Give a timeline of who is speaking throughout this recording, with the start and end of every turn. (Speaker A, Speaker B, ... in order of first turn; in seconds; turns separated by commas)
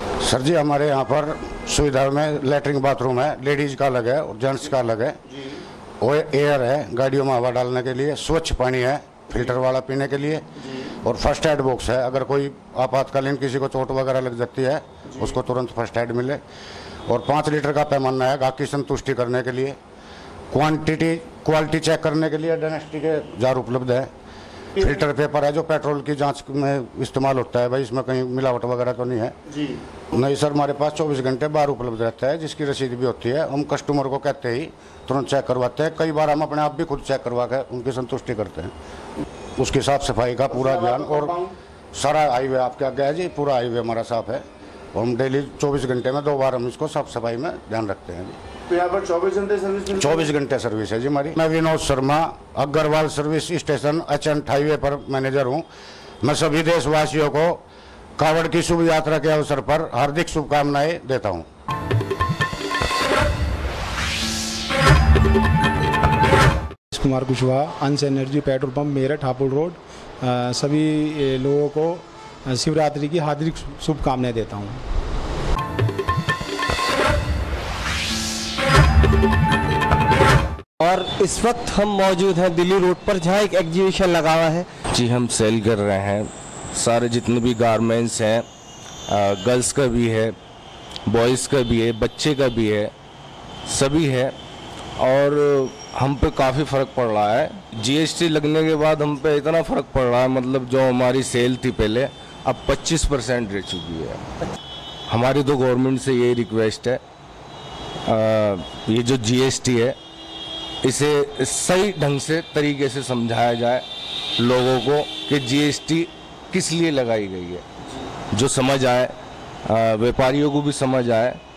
Speaker A: 0.2-5.2, Speaker B: 5.3-5.6, Speaker A: 6.0-16.4, Speaker A: 17.1-19.8, Speaker A: 20.5-24.1, Speaker A: 24.8-29.4, Speaker B: 29.5-29.8, Speaker A: 30.1-38.7, Speaker A: 39.6-41.3, Speaker B: 40.5-41.5, Speaker A: 41.9-48.4, Speaker B: 48.7-50.3, Speaker A: 49.9-55.6, Speaker A: 56.2-57.6, Speaker A: 58.2-61.4, Speaker C: 66.9-74.8, Speaker D: 80.8-84.7, Speaker E: 84.9-88.5, Speaker E: 89.1-90.3, Speaker E: 91.1-92.9, Speaker E: 93.7-94.3, Speaker E: 95.0-104.2, Speaker E: 105.1-107.0, Speaker E: 108.0-110.0, Speaker E: 110.8-113.8, Speaker E: 114.4-117.6, Speaker E: 118.3-119.1, Speaker E: 119.6-121.4